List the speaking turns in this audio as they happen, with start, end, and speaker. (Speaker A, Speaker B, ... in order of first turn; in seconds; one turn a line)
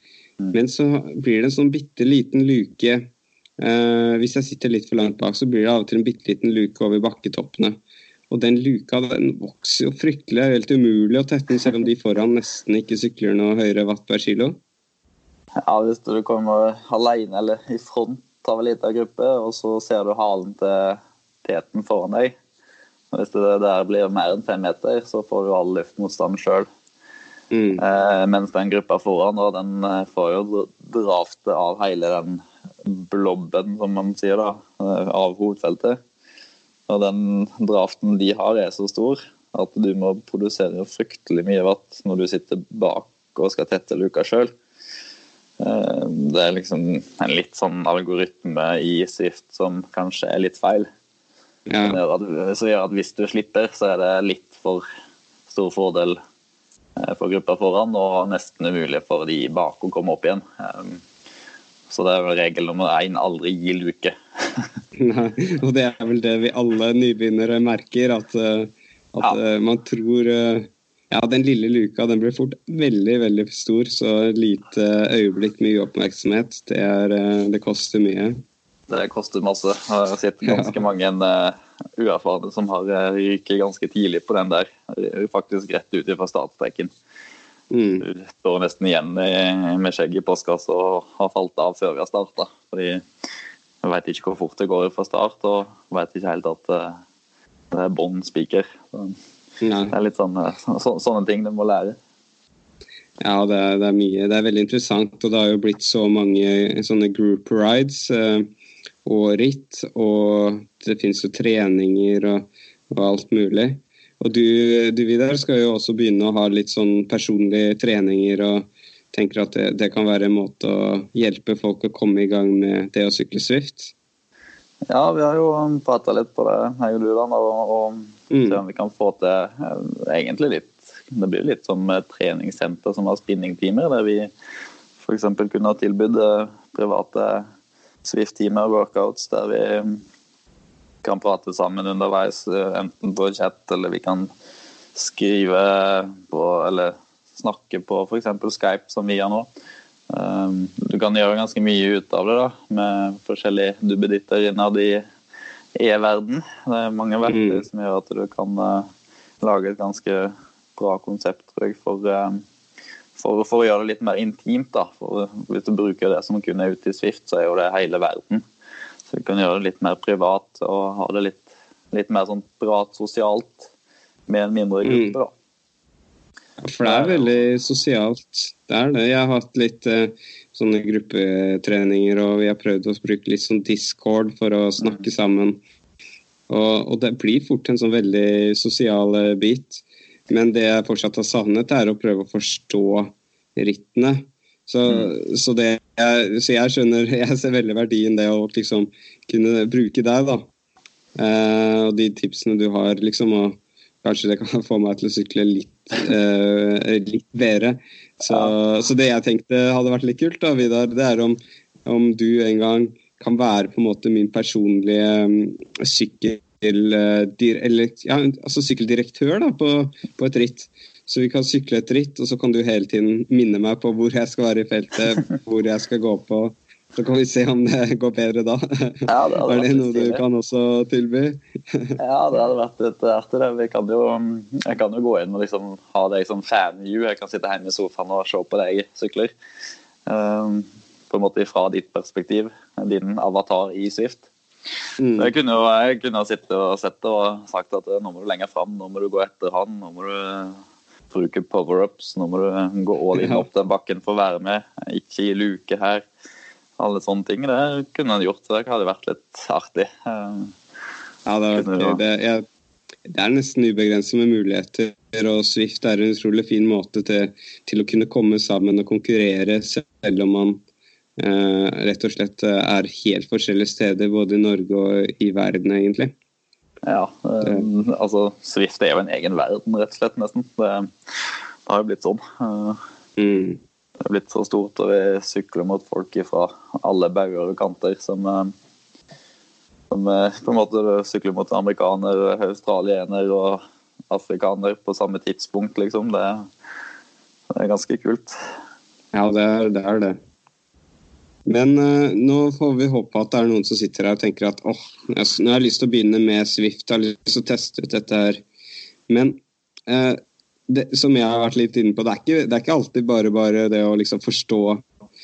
Speaker A: 0.5-3.1
Speaker A: 3.6-7.8
Speaker A: 8.3-14.6
Speaker B: 15.6-22.3
Speaker B: 23.1-26.7
Speaker A: 27.5-27.8
Speaker B: 27.8-36.0
Speaker B: 36.9-44.5
Speaker B: 45.6-50.9
Speaker A: 51.7-52.0
Speaker B: 51.8-54.8
Speaker B: 55.5-56.2
Speaker B: 57.0-61.0
Speaker B: 61.9-64.7
Speaker A: 65.0-78.4
Speaker B: 78.9-86.9
Speaker A: 80.5-80.8
Speaker A: 87.7-88.0
Speaker B: 88.0-93.0
Speaker B: 93.8-97.0
Speaker B: 97.7-99.2
Speaker A: 99.6-100.0
Speaker B: 99.9-102.0
Speaker A: 103.2-108.5
Speaker A: 109.0-123.9
Speaker B: 124.9-134.3
Speaker A: 128.3-128.6
Speaker B: 135.0-137.4
Speaker B: 138.0-140.0
Speaker B: 141.0-144.3
Speaker B: 144.9-149.5
Speaker B: 150.1-155.0
Speaker B: 155.8-158.8
Speaker A: 157.3-157.6
Speaker B: 159.4-162.4
Speaker B: 163.2-168.4
Speaker B: 169.1-173.7
Speaker B: 174.3-175.3
Speaker A: 174.8-175.2
Speaker A: 176.6-185.6
Speaker B: 176.8-177.3
Speaker A: 186.5-200.4
Speaker A: 201.2-232.0
Speaker B: 208.2-208.5
Speaker B: 229.1-230.2
Speaker B: 232.0-239.3
Speaker B: 240.1-244.3
Speaker A: 245.0-245.3
Speaker B: 245.2-250.6
Speaker B: 251.1-256.0
Speaker A: 253.2-253.4
Speaker B: 256.8-260.5
Speaker A: 261.2-262.4
Speaker B: 261.5-262.0
Speaker A: 263.1-270.6
Speaker A: 271.2-276.1
Speaker B: 276.8-282.8
Speaker A: 277.4-277.7
Speaker A: 283.2-283.6
Speaker B: 284.0-288.5
Speaker B: 289.9-296.4
Speaker B: 297.5-298.4
Speaker A: 299.1-300.2
Speaker A: 301.4-308.4
Speaker A: 309.1-314.8